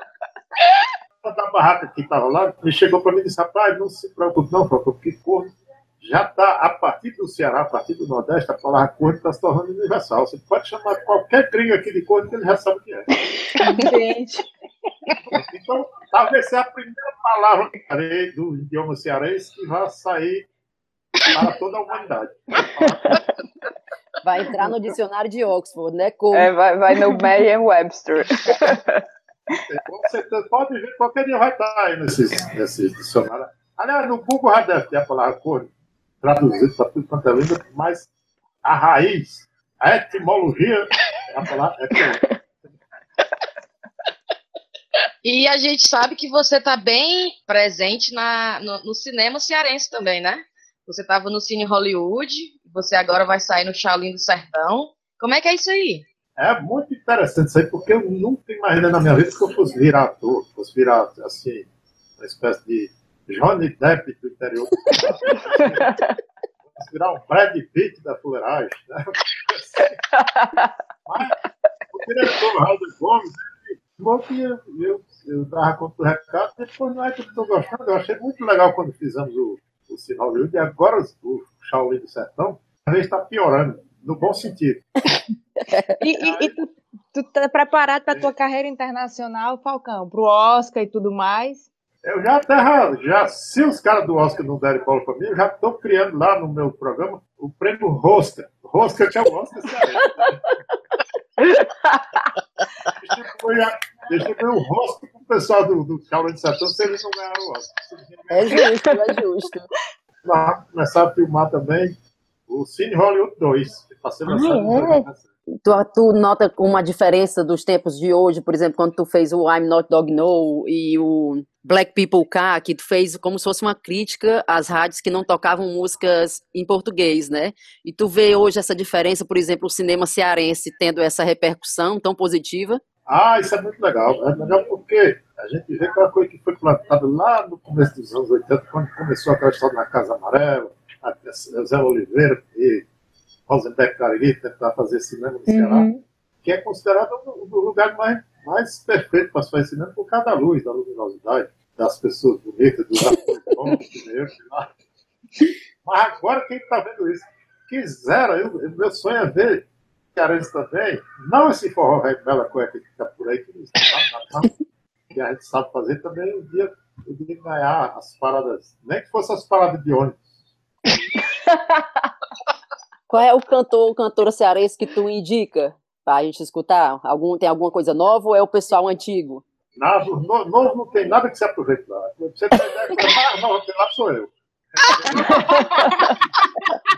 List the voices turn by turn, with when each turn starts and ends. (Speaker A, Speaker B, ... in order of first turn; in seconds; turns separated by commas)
Speaker A: 1.2-13.1, Speaker B: 13.6-14.5, Speaker A: 15.3-20.5, Speaker A: 21.2-23.3, Speaker C: 24.2-26.5, Speaker D: 26.3-28.9, Speaker A: 29.7-38.1, Speaker A: 38.6-42.4, Speaker E: 45.2-56.0, Speaker A: 56.4-61.7, Speaker A: 62.2-66.0, Speaker A: 66.7-70.0, Speaker D: 70.4-70.7, Speaker A: 71.1-71.4, Speaker A: 71.9-84.8, Speaker C: 85.7-86.0, Speaker B: 86.0-91.7, Speaker A: 86.2-86.5, Speaker A: 92.0-100.4, Speaker A: 102.9-108.7, Speaker C: 108.3-109.7, Speaker A: 110.2-112.0, Speaker A: 112.5-115.2, Speaker C: 114.3-115.1, Speaker C: 115.6-132.8, Speaker A: 133.1-142.9, Speaker A: 143.5-145.9, Speaker B: 145.5-145.9, Speaker A: 146.4-154.7, Speaker A: 155.8-164.5, Speaker A: 165.1-170.3, Speaker C: 173.1-179.4, Speaker A: 179.8-185.8